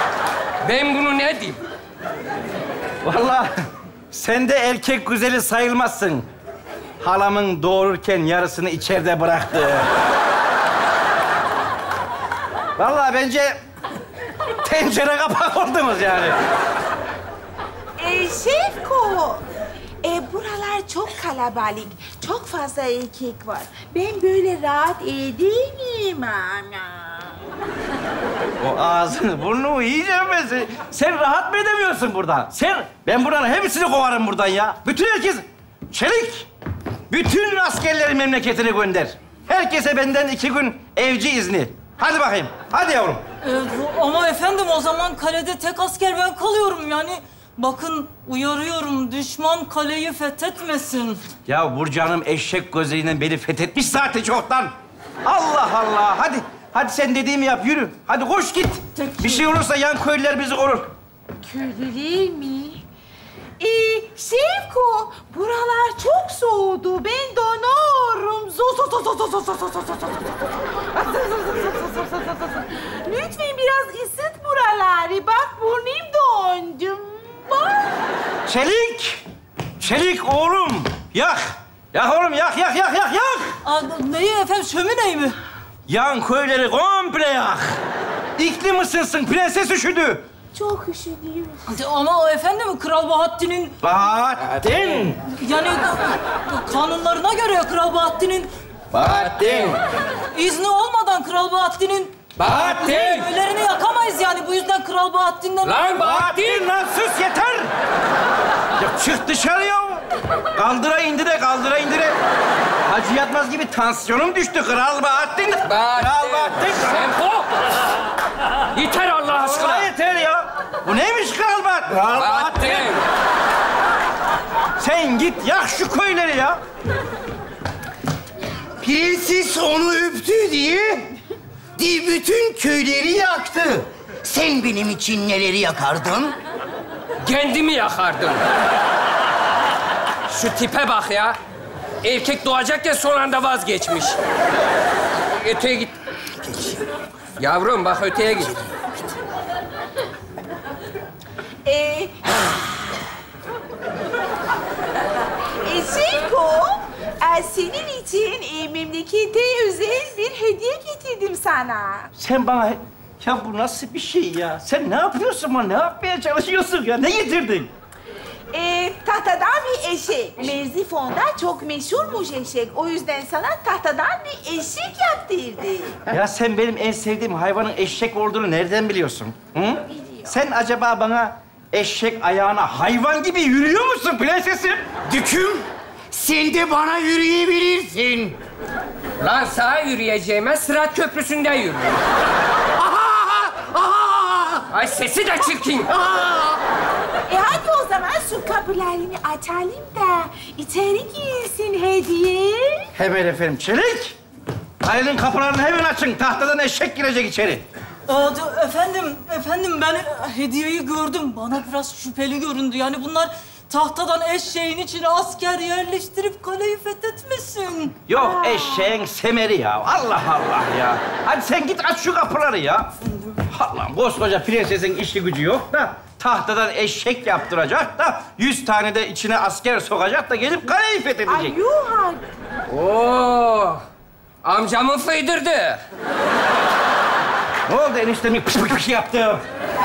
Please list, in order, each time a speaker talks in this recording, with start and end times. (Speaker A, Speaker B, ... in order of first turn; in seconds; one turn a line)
Speaker A: 0.6-1.6
Speaker B: 3.0-3.5
Speaker B: 4.1-6.3
Speaker B: 7.0-9.9
Speaker B: 12.8-13.6
Speaker B: 14.6-16.4
Speaker C: 18.0-19.4
Speaker C: 20.0-27.4
Speaker B: 28.6-36.5
Speaker B: 37.1-43.2
Speaker D: 43.4-51.2
Speaker B: 51.5-60.9
Speaker C: 61.4-62.8
Speaker C: 63.6-70.4
Speaker C: 70.9-77.9
Speaker B: 78.5-79.2
Speaker B: 79.8-83.5
Speaker D: 83.6-85.3
Speaker B: 85.9-87.8
Speaker B: 88.4-90.2
Speaker C: 90.5-91.6
Speaker D: 91.7-93.7
Speaker B: 93.8-95.2
Speaker D: 95.4-98.5
Speaker B: 98.9-99.8
Speaker D: 100.3-105.9
Speaker A: 102.4-103.3
Speaker A: 105.6-106.7
Speaker B: 106.0-107.7
Speaker B: 108.8-110.0
Speaker B: 110.5-112.2
Speaker B: 112.8-117.1
Speaker A: 115.7-117.8
Speaker A: 118.7-119.9
Speaker B: 119.3-122.9
Speaker A: 122.1-123.0
Speaker B: 124.8-126.6
Speaker E: 128.8-131.1
Speaker E: 131.8-136.3
Speaker A: 137.2-138.4
Speaker A: 140.3-141.3
Speaker A: 142.0-144.2
Speaker A: 145.4-145.9
Speaker A: 146.4-146.8
Speaker A: 147.4-148.7
Speaker C: 151.6-152.5
Speaker C: 155.6-162.1
Speaker B: 162.1-167.7
Speaker C: 168.5-176.0
Speaker B: 176.1-184.9
Speaker E: 185.1-188.3
Speaker A: 189.2-192.0
Speaker E: 193.1-194.6
Speaker A: 194.7-195.9
Speaker C: 197.3-202.9
Speaker B: 202.9-204.2
Speaker B: 204.8-207.6
Speaker D: 208.1-217.9
Speaker B: 218.1-222.9
Speaker C: 218.2-218.9
Speaker B: 223.5-231.6
Speaker C: 231.3-232.2
Speaker A: 232.7-233.8
Speaker A: 234.4-235.8
Speaker B: 237.7-239.4